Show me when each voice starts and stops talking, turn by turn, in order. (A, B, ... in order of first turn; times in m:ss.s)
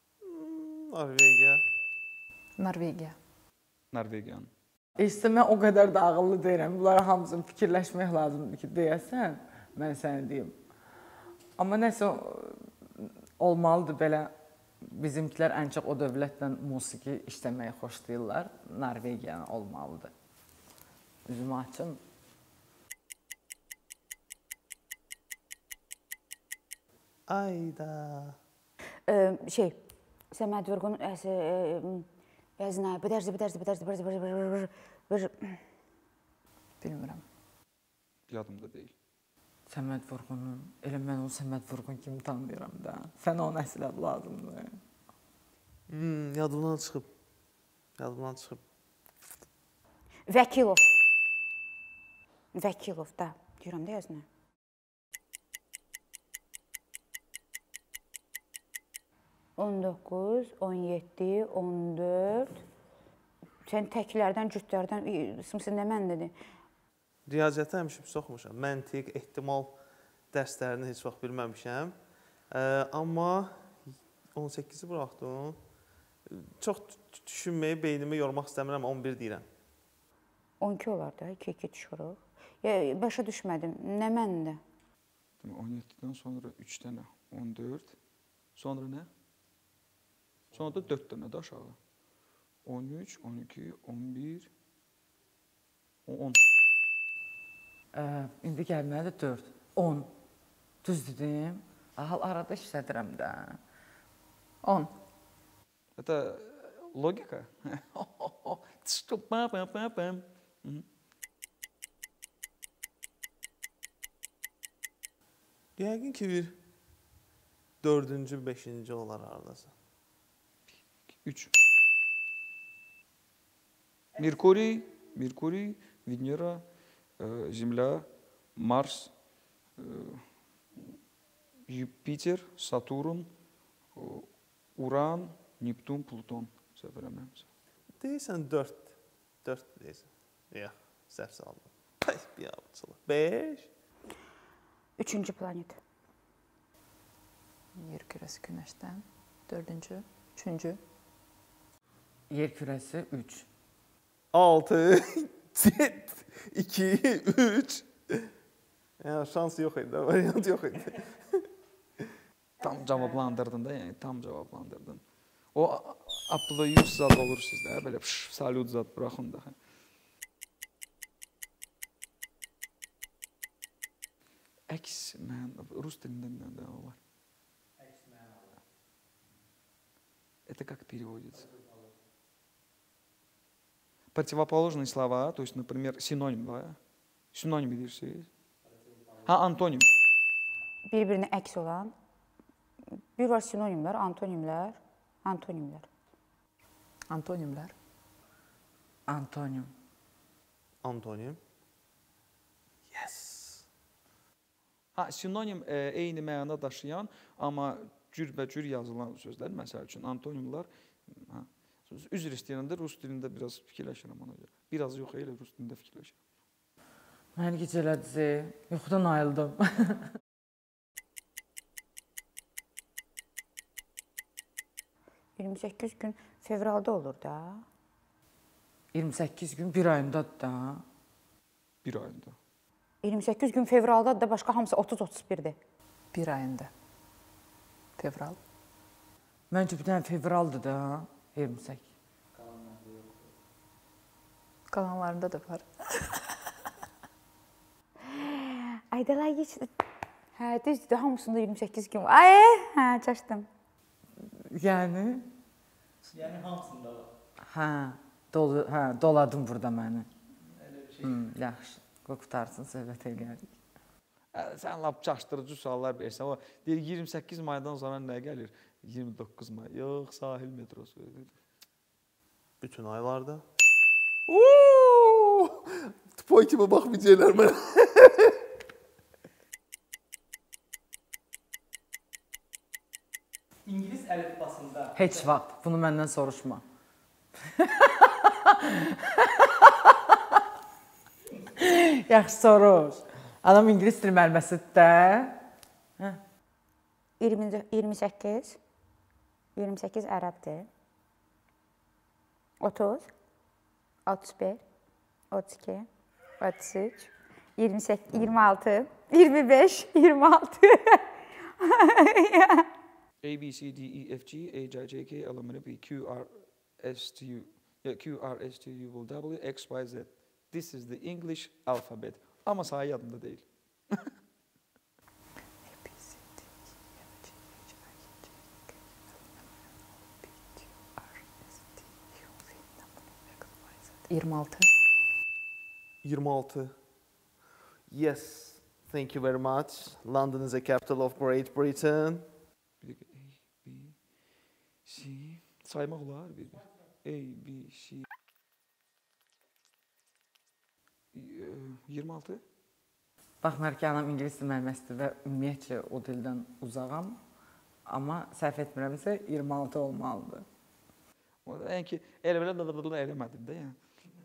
0:00.2-0:01.6 A
0:02.6-0:03.2 B
0:03.9-0:04.5 C
0:05.0-0:10.6 D
0:11.6-0:20.1 D
0:21.2-0:22.0 D
0:27.3-0:28.4 A
0:29.1-0:29.8 E
0:30.3-0:32.1 E
0:32.6-0:35.6 E
0:36.8-0:37.2 B
0:38.3-0:38.9 C
0:39.7-0:44.8 D
0:45.9-0:47.1 A
0:48.0-0:48.6 A
0:50.3-0:50.9 E
0:52.5-0:54.2 E
0:59.6-1:02.6 E
1:03.6-1:06.3 E
1:07.3-1:09.7 A
1:10.3-1:11.9 A
1:12.5-1:13.6 A
1:14.3-1:15.6 A
1:16.3-1:19.5 A
1:20.6-1:24.6 E
1:25.4-1:28.0 C
1:28.5-1:29.1 C
1:30.5-1:31.8 C
1:32.6-1:34.5 C
1:36.0-1:36.4 C
1:37.9-1:40.1 D
1:40.8-1:43.6 D
1:44.6-1:44.9 B
1:46.0-1:50.8 C
1:55.8-1:56.6 A
1:57.8-1:59.7 A
2:01.2-2:01.5 C
2:04.1-2:06.6 C
2:07.2-2:09.1 C
2:09.8-2:10.2 C
2:11.7-2:13.3 C
2:13.9-2:17.4 C
2:18.0-2:23.7 A
2:25.0-2:25.8 E
2:27.8-2:30.8 B
2:32.3-2:33.4 D
2:34.3-2:38.3 A
2:39.0-2:41.4 A
2:42.6-2:45.0 C
2:45.5-2:49.6 C
2:54.7-2:57.0 C
2:57.8-2:58.6 F
3:00.4-3:01.4 C
3:01.4-3:01.8 F
3:04.1-3:06.8 C
3:07.3-3:08.3 C
3:08.7-3:09.3 F
3:09.2-3:09.9 C
3:10.9-3:11.9 E
3:13.2-3:15.9 E
3:17.1-3:17.7 B
3:19.1-3:19.7 D
3:20.8-3:21.4 A
3:22.9-3:23.6 A
3:24.9-3:36.2 C
3:37.4-3:40.0 D
3:45.4-3:47.6 E
3:48.9-3:50.8 D
3:51.8-3:52.4 C
3:53.0-3:55.6 E
3:56.1-3:56.7 B
3:58.0-3:58.4 B
3:59.5-4:01.9 D
4:02.3-4:03.3 F
4:04.7-4:06.3 B
4:08.0-4:09.7 E
4:10.4-4:13.5 E
4:14.4-4:15.3 D
4:16.1-4:17.1 F
4:17.4-4:20.1 D
4:20.6-4:21.2 F
4:21.0-4:23.5 D
4:24.3-4:31.3 C
4:32.6-4:33.4 A
4:34.3-4:38.4 A
4:43.6-4:45.3 F
4:44.9-4:46.6 D
4:47.6-4:50.4 D
4:51.6-4:55.4 D
4:57.2-4:58.6 E
4:59.6-5:00.7 E
5:02.6-5:03.1 E
5:04.0-5:04.6 E
5:05.3-5:05.9 E
5:06.4-5:11.0 E
5:11.6-5:12.7 E
5:13.2-5:24.1 C
5:25.6-5:26.5 B
5:27.0-5:28.3 B
5:30.2-5:31.2 B
5:31.8-5:34.7 B
5:36.0-5:36.7 A
5:37.9-5:42.3 A
5:42.8-5:44.0 C
5:44.8-5:48.0 C
5:51.1-5:52.4 C
5:53.4-5:57.2 D
5:57.8-6:00.4 D
6:01.4-6:03.8 C